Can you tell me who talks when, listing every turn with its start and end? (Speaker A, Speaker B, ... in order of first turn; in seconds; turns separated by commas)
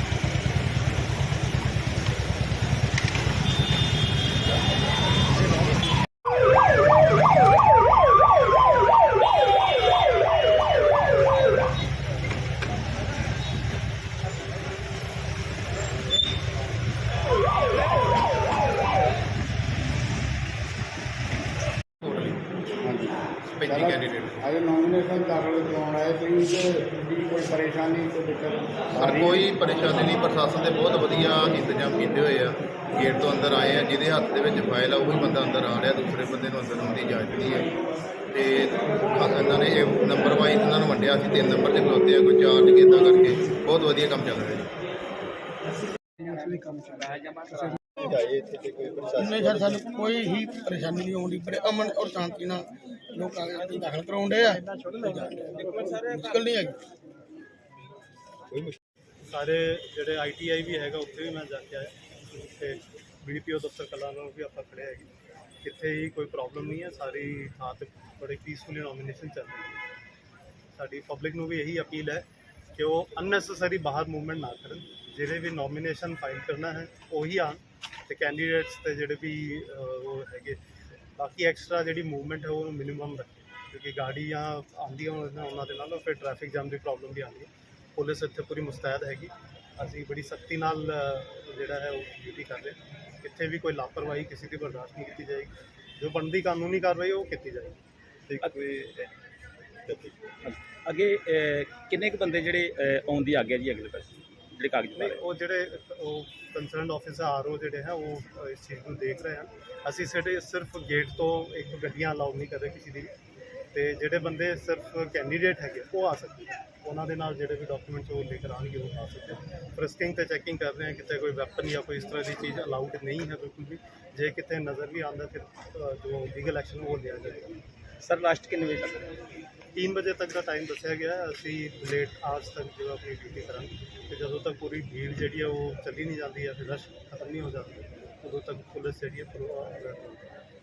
Speaker A: 22.0-22.4, Speaker B: 22.8-29.5, Speaker A: 23.5-24.4, Speaker A: 29.0-37.7, Speaker A: 38.3-44.7, Speaker C: 46.4-47.7, Speaker A: 48.0-49.8, Speaker D: 49.2-56.8, Speaker C: 55.6-56.1, Speaker E: 59.2-69.8, Speaker E: 70.7-80.6, Speaker E: 81.2-98.5, Speaker A: 98.5-99.1, Speaker A: 99.9-100.1, Speaker C: 100.4-105.2, Speaker E: 105.0-113.1, Speaker E: 113.7-127.6, Speaker C: 128.0-129.1, Speaker E: 129.7-140.3